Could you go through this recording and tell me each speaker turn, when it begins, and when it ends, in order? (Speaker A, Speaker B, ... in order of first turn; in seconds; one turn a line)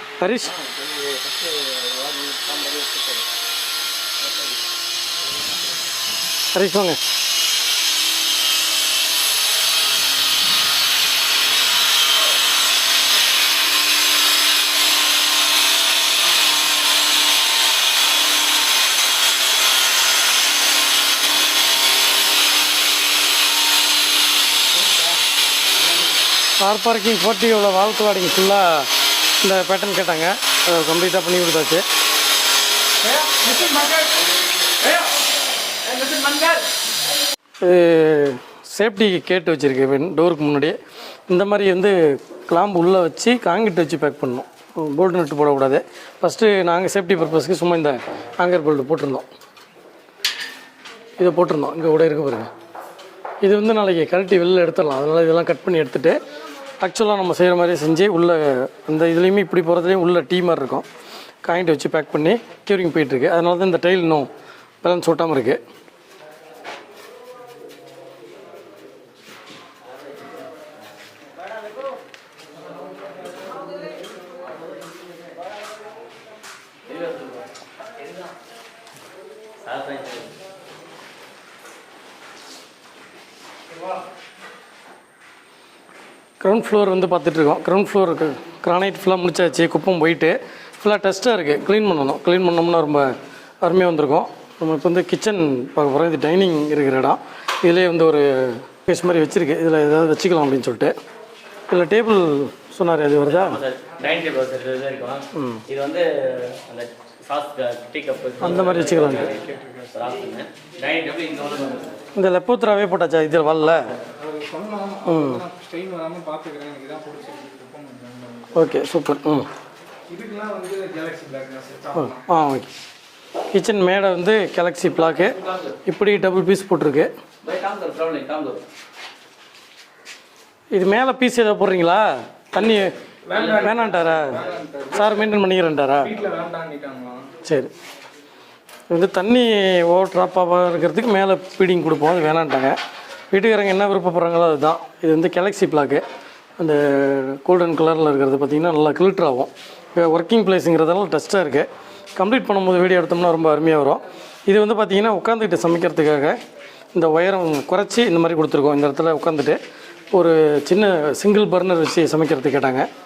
Speaker A: 0.2-0.5
Speaker B: 0.4-3.3
Speaker B: 4.2-4.6
Speaker C: 5.3-5.9
Speaker A: 6.5-7.0
Speaker A: 26.6-28.9
Speaker A: 29.4-31.9
Speaker C: 33.0-34.2
Speaker C: 35.9-36.6
Speaker A: 37.6-40.8
Speaker A: 41.3-42.0
Speaker A: 42.5-49.3
Speaker A: 51.2-52.5
Speaker A: 53.4-56.2
Speaker A: 56.8-60.9
Speaker A: 61.4-64.3
Speaker A: 64.8-65.6
Speaker B: 76.8-77.5
Speaker B: 79.6-80.4
Speaker A: 86.4-101.0
Speaker A: 101.7-103.6
Speaker B: 103.3-112.0
Speaker A: 105.3-105.6
Speaker A: 108.4-109.3
Speaker C: 108.5-109.9
Speaker A: 112.2-113.9
Speaker C: 114.1-118.7
Speaker A: 115.1-115.4
Speaker A: 118.5-119.5
Speaker C: 120.1-122.3
Speaker A: 122.0-122.7
Speaker A: 123.5-127.1
Speaker B: 125.0-125.8
Speaker B: 127.4-128.6
Speaker A: 130.7-132.9
Speaker C: 133.3-135.4
Speaker B: 133.3-134.4
Speaker A: 133.5-134.4
Speaker A: 134.9-136.1
Speaker C: 136.0-137.3
Speaker A: 137.4-137.7
Speaker A: 138.9-142.8
Speaker A: 143.3-146.0
Speaker A: 146.6-156.4
Speaker A: 156.9-159.6
Speaker A: 160.1-162.9